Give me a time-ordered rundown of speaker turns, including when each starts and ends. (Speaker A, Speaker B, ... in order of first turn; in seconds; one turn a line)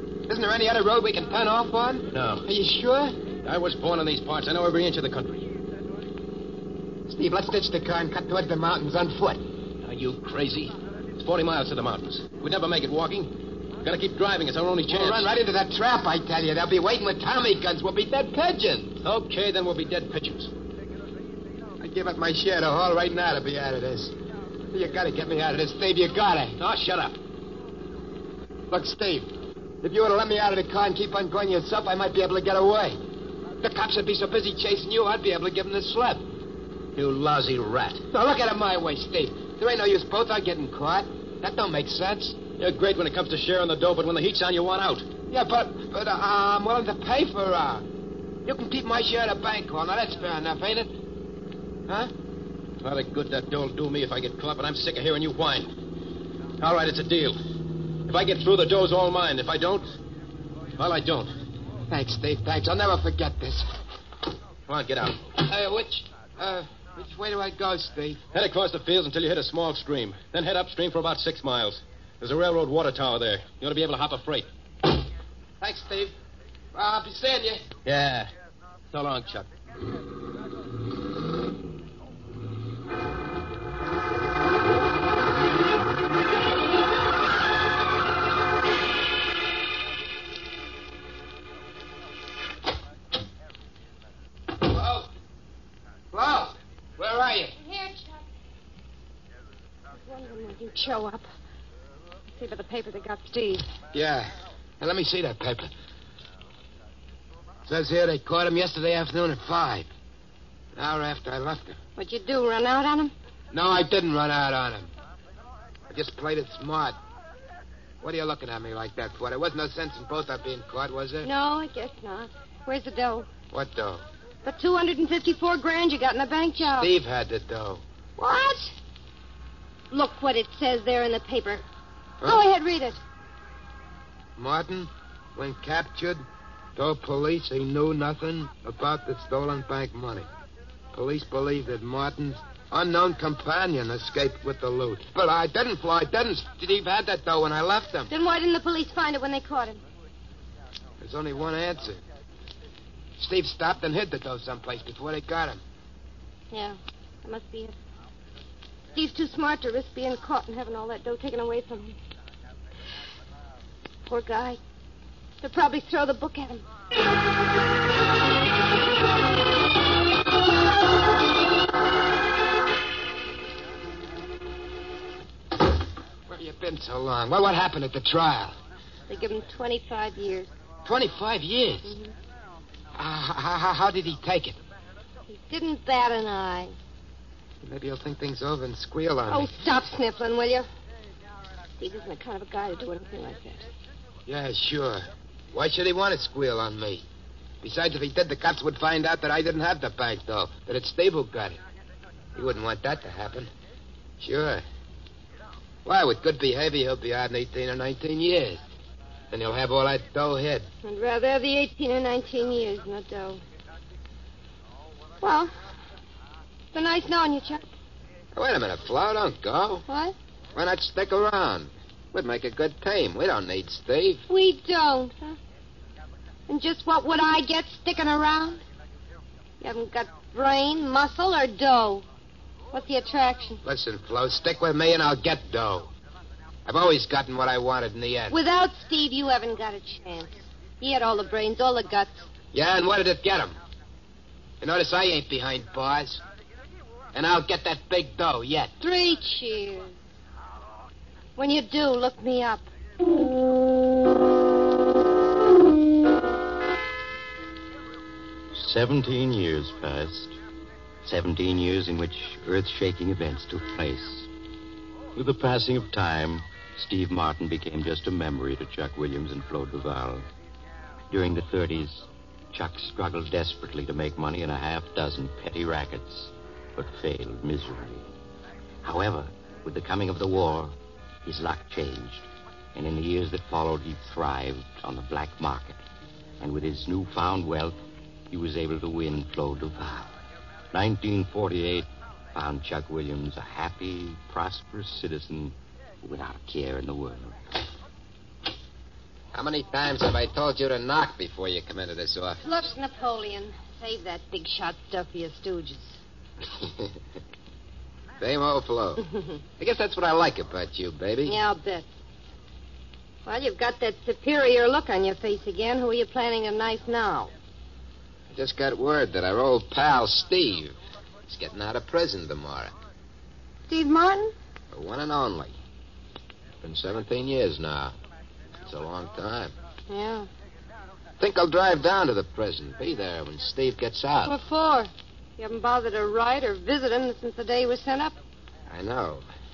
Speaker A: 0.3-3.2
Speaker B: 2.1-2.4
Speaker B: 3.4-5.5
Speaker A: 7.1-9.4
Speaker B: 9.8-13.3
Speaker B: 13.8-15.3
Speaker A: 14.9-19.0
Speaker B: 19.0-20.5
Speaker A: 21.8-24.1
Speaker A: 24.7-26.6
Speaker B: 26.6-27.2
Speaker A: 28.7-29.3
Speaker A: 29.8-33.0
Speaker A: 33.6-36.2
Speaker B: 37.0-38.0
Speaker A: 38.1-42.4
Speaker B: 42.6-45.1
Speaker A: 45.3-47.9
Speaker A: 48.5-50.9
Speaker B: 52.8-55.7
Speaker B: 56.6-57.4
Speaker B: 58.1-59.9
Speaker B: 60.8-61.3
Speaker A: 61.9-63.7
Speaker B: 64.7-65.3
Speaker A: 65.4-68.2
Speaker B: 68.3-74.5
Speaker A: 75.6-76.2
Speaker A: 76.7-77.7
Speaker B: 77.8-78.3
Speaker B: 78.9-79.5
Speaker A: 94.6-95.1
Speaker A: 96.1-97.5
Speaker C: 97.6-98.2
Speaker C: 99.9-101.3
Speaker C: 102.4-103.7
Speaker A: 103.9-104.3
Speaker A: 104.8-105.7
Speaker A: 107.7-109.9
Speaker A: 110.8-111.8
Speaker C: 112.0-113.1
Speaker A: 113.5-114.9
Speaker A: 115.9-117.0
Speaker A: 118.0-121.3
Speaker C: 121.2-123.3
Speaker A: 123.5-124.0
Speaker C: 124.4-126.9
Speaker A: 126.7-127.8
Speaker C: 128.2-128.7
Speaker C: 129.9-131.7
Speaker C: 132.2-133.0
Speaker A: 134.4-136.2
Speaker A: 136.8-140.3
Speaker A: 140.9-148.1
Speaker C: 148.1-149.8
Speaker A: 151.0-152.0
Speaker A: 153.2-155.6
Speaker C: 156.5-157.7
Speaker C: 158.9-162.0
Speaker C: 164.1-164.6
Speaker C: 165.4-166.7
Speaker A: 176.3-178.6
Speaker C: 179.1-180.5
Speaker A: 180.8-181.9
Speaker C: 181.8-182.1
Speaker A: 182.9-184.6
Speaker C: 185.3-186.8
Speaker A: 187.6-189.5
Speaker C: 189.3-190.7
Speaker C: 191.8-193.7
Speaker A: 194.3-197.1
Speaker A: 197.6-201.6
Speaker A: 202.3-203.5
Speaker A: 204.2-204.6
Speaker A: 205.8-208.6
Speaker A: 209.3-210.7
Speaker C: 210.8-213.4
Speaker C: 215.2-215.5
Speaker C: 216.7-217.6
Speaker A: 218.3-219.8
Speaker C: 219.9-220.2
Speaker A: 220.5-224.2
Speaker C: 224.3-225.4
Speaker C: 226.5-228.6
Speaker C: 229.6-232.1
Speaker C: 232.7-233.6
Speaker A: 233.6-235.9
Speaker A: 236.7-238.4
Speaker C: 238.3-242.3
Speaker A: 242.5-243.6
Speaker A: 244.6-246.2
Speaker A: 247.1-248.7
Speaker C: 248.8-250.0
Speaker C: 251.4-252.7
Speaker D: 258.5-260.4
Speaker D: 261.0-264.3
Speaker D: 265.1-270.3
Speaker D: 271.1-278.1
Speaker D: 278.8-285.8
Speaker D: 286.4-290.2
Speaker D: 290.7-297.4
Speaker A: 299.3-302.4
Speaker C: 302.4-306.0
Speaker A: 306.6-306.9
Speaker A: 308.2-309.0
Speaker A: 309.6-311.4
Speaker C: 311.2-311.9
Speaker C: 313.3-317.3
Speaker A: 318.3-322.7
Speaker C: 323.7-324.3
Speaker A: 324.7-325.6
Speaker A: 326.6-327.9
Speaker A: 328.6-329.5
Speaker C: 329.9-330.3
Speaker A: 331.2-334.3
Speaker C: 334.3-338.2
Speaker A: 338.7-339.3